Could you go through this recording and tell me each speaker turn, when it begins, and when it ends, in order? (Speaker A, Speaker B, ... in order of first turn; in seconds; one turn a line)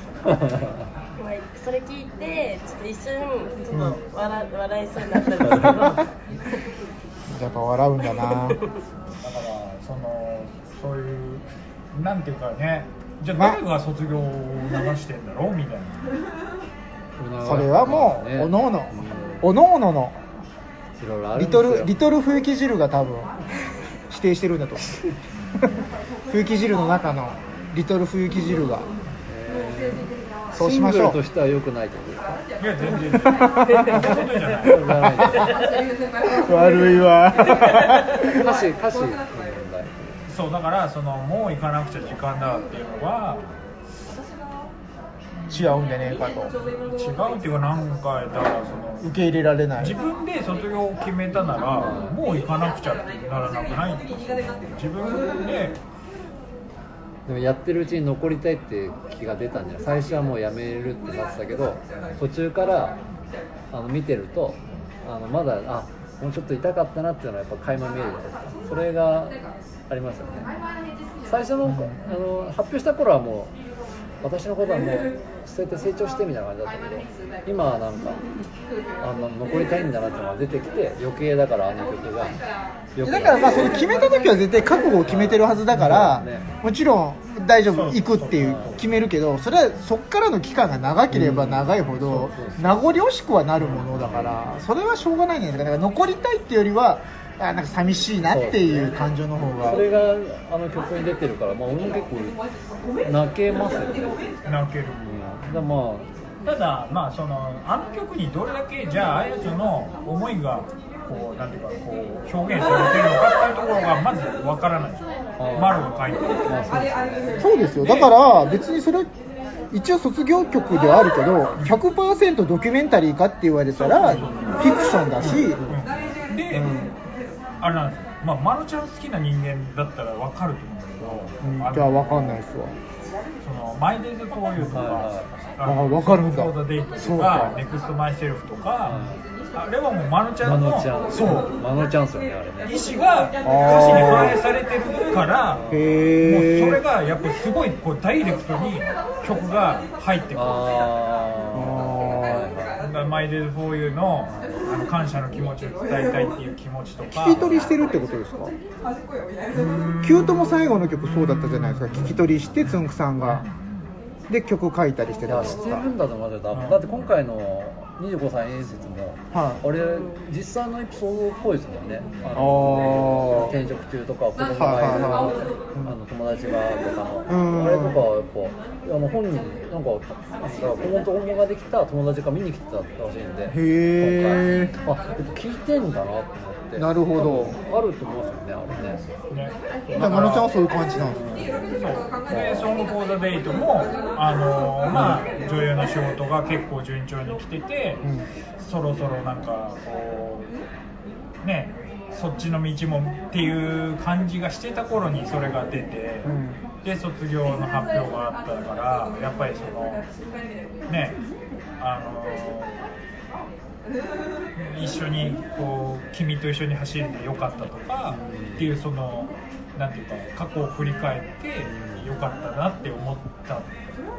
Speaker A: 0.2-0.9
Speaker B: 1.2-6.2
Speaker C: 3.7-4.0
Speaker A: 5.3-5.9
Speaker C: 7.3-8.6
Speaker B: 8.2-8.6
Speaker D: 9.0-16.2
Speaker C: 13.3-13.6
Speaker A: 17.2-19.6
Speaker C: 17.4-20.2
Speaker A: 21.0-22.0
Speaker C: 21.4-23.3
Speaker C: 24.1-25.0
Speaker D: 25.3-25.8
Speaker C: 26.3-28.9
Speaker A: 29.3-32.4
Speaker C: 30.5-31.2
Speaker D: 32.6-35.3
Speaker C: 33.2-34.2
Speaker A: 34.4-35.6
Speaker C: 35.2-35.6
Speaker C: 36.2-38.5
Speaker A: 38.2-40.2
Speaker D: 40.3-43.6
Speaker D: 45.4-45.7
Speaker C: 45.5-46.5
Speaker D: 46.6-49.2
Speaker C: 49.0-50.0
Speaker D: 49.8-55.8
Speaker A: 51.7-52.2
Speaker A: 57.3-63.0
Speaker A: 63.7-70.5
Speaker A: 71.2-73.5
Speaker C: 71.7-72.0
Speaker A: 74.2-78.2
Speaker A: 79.0-82.4
Speaker A: 83.0-83.4
Speaker C: 83.0-99.8
Speaker A: 85.1-86.5
Speaker D: 87.7-89.0
Speaker A: 91.1-93.0
Speaker A: 93.6-94.5
Speaker A: 98.3-102.4
Speaker A: 103.0-104.2
Speaker D: 104.5-105.6
Speaker A: 105.0-106.1
Speaker D: 106.4-116.8
Speaker A: 115.4-117.4
Speaker C: 117.4-119.1
Speaker D: 117.8-118.1
Speaker C: 119.7-125.6
Speaker D: 123.8-124.7
Speaker A: 124.2-124.6
Speaker A: 125.2-125.8
Speaker D: 125.7-126.7
Speaker C: 126.5-127.0
Speaker D: 127.6-132.4
Speaker C: 131.4-132.8
Speaker D: 133.4-141.6
Speaker A: 134.7-135.3
Speaker C: 135.6-137.6
Speaker A: 138.9-139.2
Speaker A: 140.4-142.8
Speaker D: 142.7-145.7
Speaker C: 143.4-144.4
Speaker A: 145.6-145.9
Speaker C: 145.7-146.8
Speaker D: 146.2-150.9
Speaker A: 150.3-152.8
Speaker C: 151.5-152.5
Speaker D: 152.8-157.8
Speaker A: 154.3-154.6
Speaker C: 157.1-158.6
Speaker D: 159.5-163.9
Speaker C: 160.0-163.4
Speaker C: 164.3-165.8
Speaker A: 165.3-189.1
Speaker D: 166.5-167.1
Speaker C: 169.3-169.6
Speaker D: 172.1-172.5
Speaker C: 172.3-173.6
Speaker C: 174.6-175.9
Speaker C: 177.3-178.0
Speaker C: 183.5-184.7
Speaker C: 186.8-187.6
Speaker D: 189.3-190.5
Speaker C: 189.9-191.5
Speaker A: 191.1-191.7
Speaker D: 191.3-198.1
Speaker A: 192.3-192.7
Speaker D: 198.6-200.5
Speaker D: 201.4-210.1
Speaker C: 206.2-206.6
Speaker D: 210.9-211.2
Speaker D: 211.8-212.8
Speaker D: 214.6-223.8
Speaker A: 218.1-218.7
Speaker A: 221.6-222.1